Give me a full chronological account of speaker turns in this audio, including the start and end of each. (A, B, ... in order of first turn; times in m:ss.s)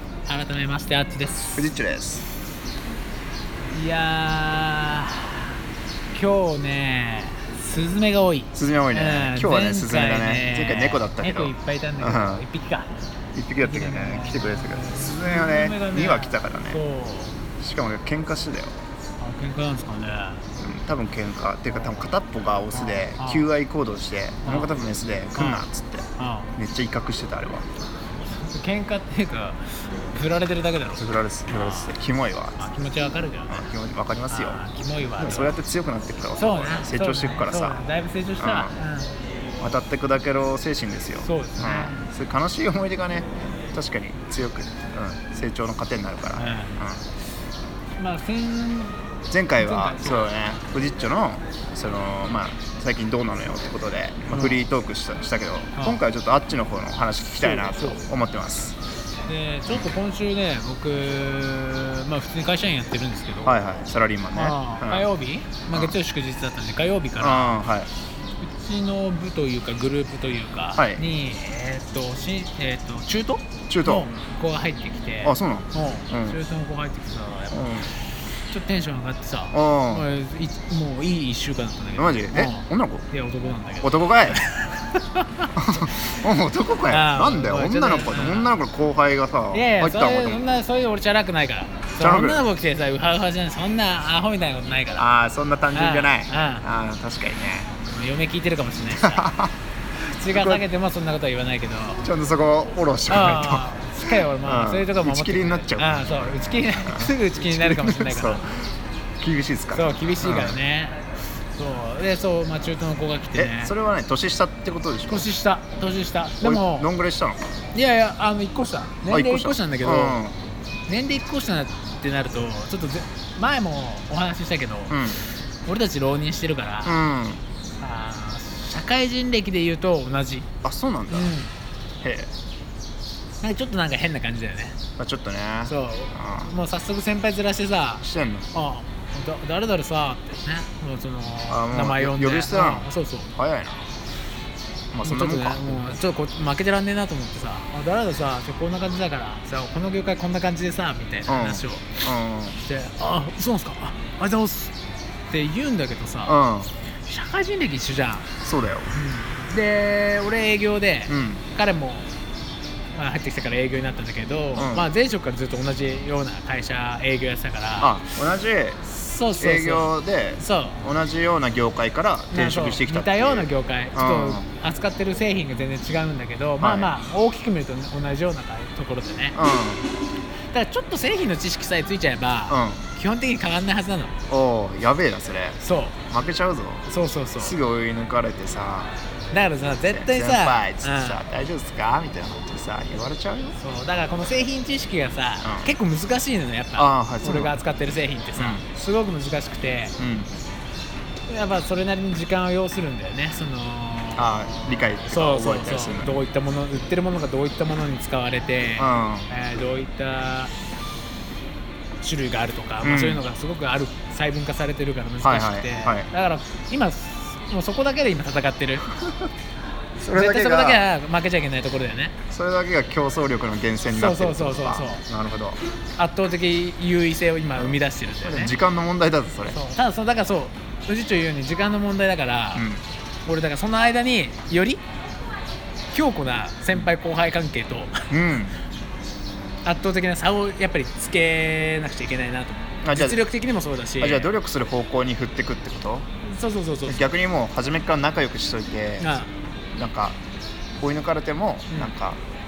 0:00.3-0:01.7 A
0:01.5-0:02.2 B
0:03.7-0:05.5 A
0:06.1-0:12.9 A
0:08.5-0:12.4 B
0:13.3-0:16.8 B
0:13.6-0:17.4 A
0:17.6-0:18.8 B
0:19.2-0:20.4 A
0:20.6-0:27.7 B
0:22.7-0:23.5 A
0:24.4-0:24.8 A
0:25.3-0:26.5 A
0:28.3-0:31.9 A
0:30.9-0:32.6 B
0:32.6-0:33.7 A
0:33.5-0:34.6 B
0:34.3-0:35.6 A
0:35.2-0:37.8 B
0:36.4-0:39.1 A
0:38.4-0:38.8 B
0:39.6-0:47.0 B
0:41.2-0:42.0 A
0:46.4-0:46.8 A
0:48.0-0:49.0 A
0:49.3-0:58.8 B
0:49.6-0:50.3 A
0:54.3-0:54.6 A
0:55.8-0:56.0 A
0:57.4-0:58.1 A
0:59.3-1:03.6 A
1:03.4-1:05.1 B
1:04.3-1:07.6 A
1:07.2-1:07.9 B
1:08.4-1:18.0 A
1:10.7-1:11.0 B
1:13.7-1:14.1 B
1:15.2-1:16.4 B
1:17.5-1:17.9 B
1:18.5-1:26.1 A
1:19.5-1:20.1 B
1:22.0-1:23.0 B
1:23.8-1:24.4 B
1:25.5-1:30.4 B
1:26.9-1:28.6 A
1:29.5-1:35.0 A
1:32.0-1:32.4 B
1:35.0-1:37.7 B
1:35.7-1:36.6 A
1:37.8-1:39.3 A
1:39.0-1:39.5 B
1:40.0-1:42.0 A
1:40.3-1:40.6 B
1:42.0-1:43.7 B
1:43.1-1:48.4 A
1:44.2-1:48.6 B
1:49.2-1:50.6 B
1:49.7-1:51.0 A
1:51.6-1:53.7 A
1:53.3-1:55.3 B
1:55.1-1:56.9 A
1:56.4-1:57.5 B
1:57.7-2:00.2 A
1:59.1-2:00.4 B
2:00.9-2:07.0 A
2:04.9-2:05.2 B
2:06.8-2:07.4 B
2:07.8-2:10.5 A
2:10.6-2:11.4 B
2:11.1-2:11.5 A
2:12.0-2:12.3 B
2:13.4-2:14.8 A
2:15.0-2:16.5 B
2:15.6-2:23.3 A
2:18.0-2:18.5 B
2:21.5-2:23.9 B
2:24.9-2:26.0 B
2:25.0-2:32.0 A
2:31.3-2:32.6 B
2:32.6-2:34.7 A
2:35.3-2:36.4 A
2:36.2-2:36.7 B
2:37.0-2:38.3 A
2:38.4-2:38.9 B
2:38.9-2:42.1 A
2:41.1-2:41.4 B
2:42.9-2:48.0 A
2:44.5-2:44.9 B
2:47.8-2:48.8 B
2:48.8-2:50.8 A
2:49.4-2:54.5 B
2:52.3-2:59.4 A
2:56.6-2:56.9 B
2:59.3-2:59.9 B
3:00.5-3:04.1 A
3:02.5-3:02.8 B
3:04.3-3:06.8 B
3:05.6-3:06.0 A
3:06.9-3:07.6 A
3:07.4-3:08.9 B
3:09.3-3:11.2 A
3:09.8-3:13.6 B
3:13.6-3:19.9 A
3:15.4-3:15.7 B
3:16.8-3:17.6 B
3:18.4-3:18.6 B
3:20.0-3:20.3 B
3:21.3-3:30.5 A
3:24.1-3:26.2 B
3:28.8-3:29.3 B
3:32.0-3:38.9 A
3:32.8-3:33.2 B
3:35.2-3:36.1 B
3:40.0-3:40.8 B
3:40.1-3:42.2 A
3:42.3-3:45.6 B
3:43.9-3:45.0 A
3:46.0-3:48.6 A
3:47.6-3:49.6 B
3:49.5-3:52.6 A
3:52.5-3:52.8 B
3:53.2-3:54.8 A
3:55.9-3:58.1 A
3:58.1-3:58.6 B
3:59.6-4:04.3 A
4:02.8-4:03.2 B
4:04.0-4:06.1 B
4:06.2-4:07.1 A
4:06.8-4:09.2 B
4:09.0-4:09.3 A
4:09.8-4:10.2 B
4:10.8-4:12.2 B